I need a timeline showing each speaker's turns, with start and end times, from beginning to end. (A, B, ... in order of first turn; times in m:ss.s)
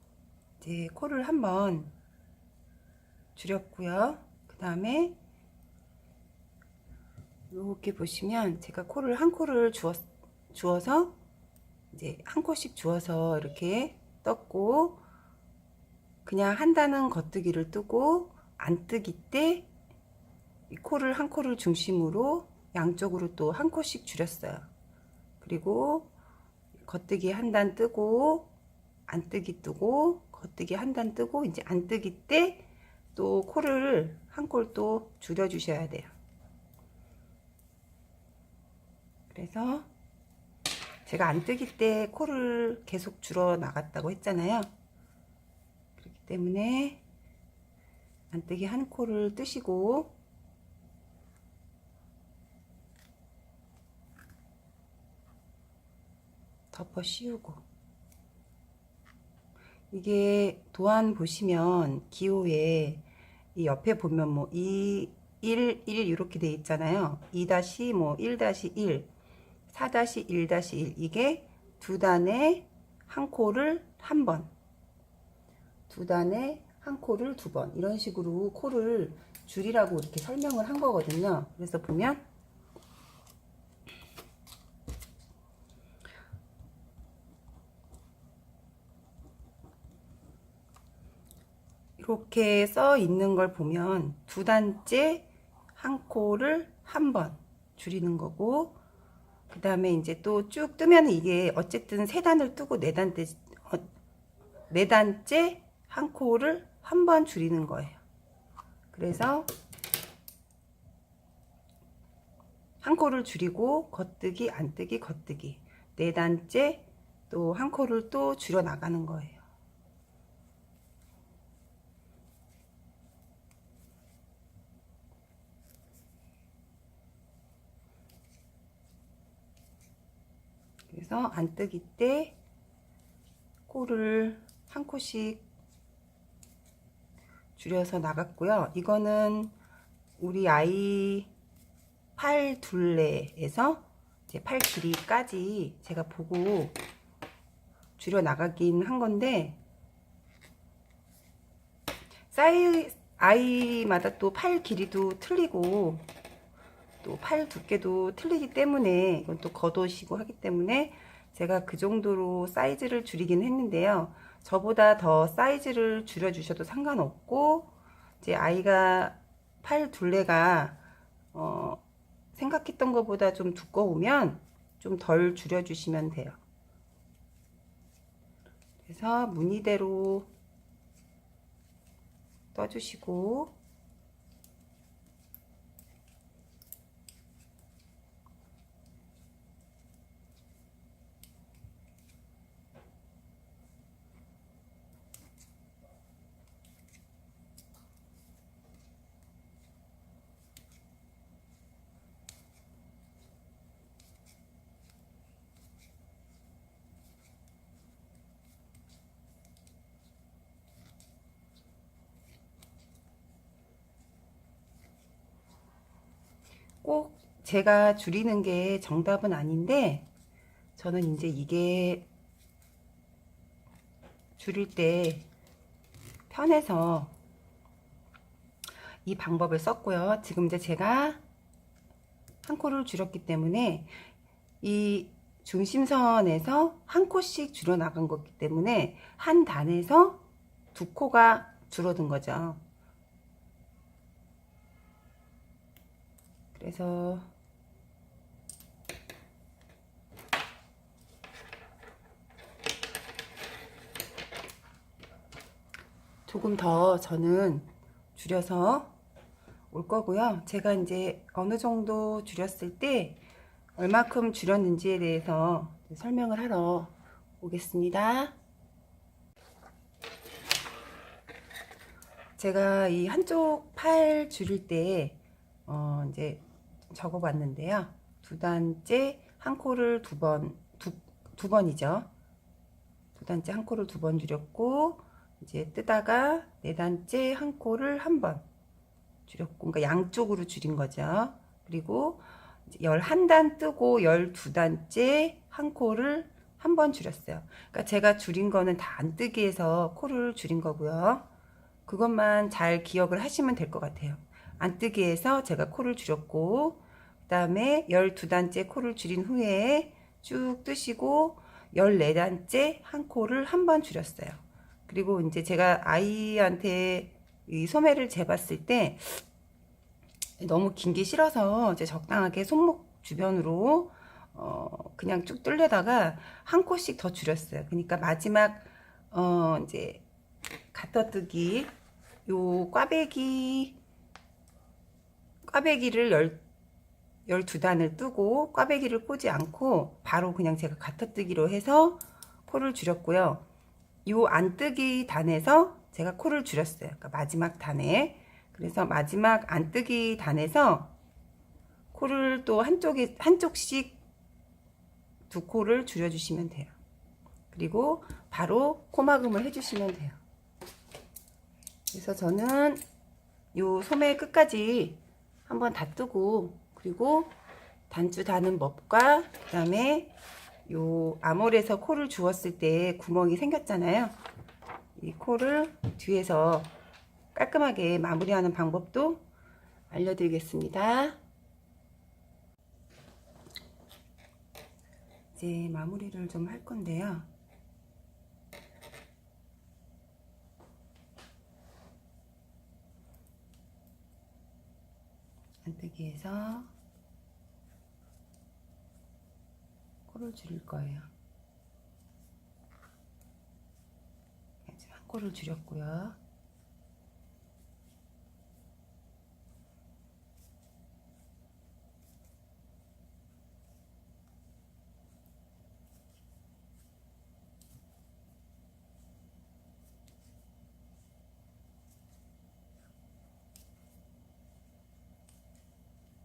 0:00.6-0:01.9 A
0:03.4-0:05.2 A
0:07.5-0:11.2 A
0:11.9-0:15.0 A
0:16.2-0:19.7 A
0:20.7-0:24.7 A
0:25.4-0:26.1 A
0:26.8-0:28.5 A
0:29.1-0:36.1 A
0:39.3-0:39.9 A
0:41.1-0:44.7 A
0:46.0-0:47.0 A
0:48.3-0:50.2 A
0:56.7-0:57.6 A
0:59.9-1:09.1 A
1:09.7-1:14.5 A
1:15.9-1:22.2 A
1:32.0-1:38.8 A
1:39.5-1:43.9 A
1:44.7-1:48.0 A
1:48.9-1:49.5 A
1:52.8-1:59.4 A
2:10.9-2:12.4 A
2:13.7-2:15.4 A
2:17.6-2:19.5 A
2:20.2-2:21.3 A
2:22.2-2:26.8 A
2:28.0-2:29.6 A
2:32.3-2:36.1 A
2:37.0-2:51.8 A
2:52.4-2:56.4 A
2:58.8-3:00.3 A
3:02.5-3:03.5 A
3:36.8-3:40.1 A
3:40.8-3:42.1 A
3:44.4-3:45.3 A
3:46.3-3:47.2 A
3:49.0-3:51.2 A
3:52.4-3:54.0 A
3:54.6-4:02.6 A
4:06.5-4:07.3 A
4:16.3-4:19.0 A
4:19.7-4:23.2 A
4:23.8-4:28.4 A
4:32.4-4:42.1 A
4:43.2-4:48.5 A
4:49.3-5:01.3 A
5:01.9-5:19.2 A
5:20.4-5:30.1 A
5:30.7-5:31.7 A
5:32.2-5:33.8 A
5:35.4-5:36.4 A
5:37.3-5:43.5 A
5:44.0-5:51.0 A
5:51.9-5:54.0 A
5:55.3-5:56.7 A
5:57.5-6:00.2 A
6:01.9-6:02.8 A
6:03.5-6:07.4 A
6:07.9-6:14.2 A
6:15.0-6:16.7 A
6:17.3-6:19.2 A
6:19.9-6:21.2 A
6:25.3-6:27.3 A
6:35.6-6:36.7 A
6:40.1-6:41.1 A
6:44.6-6:46.2 A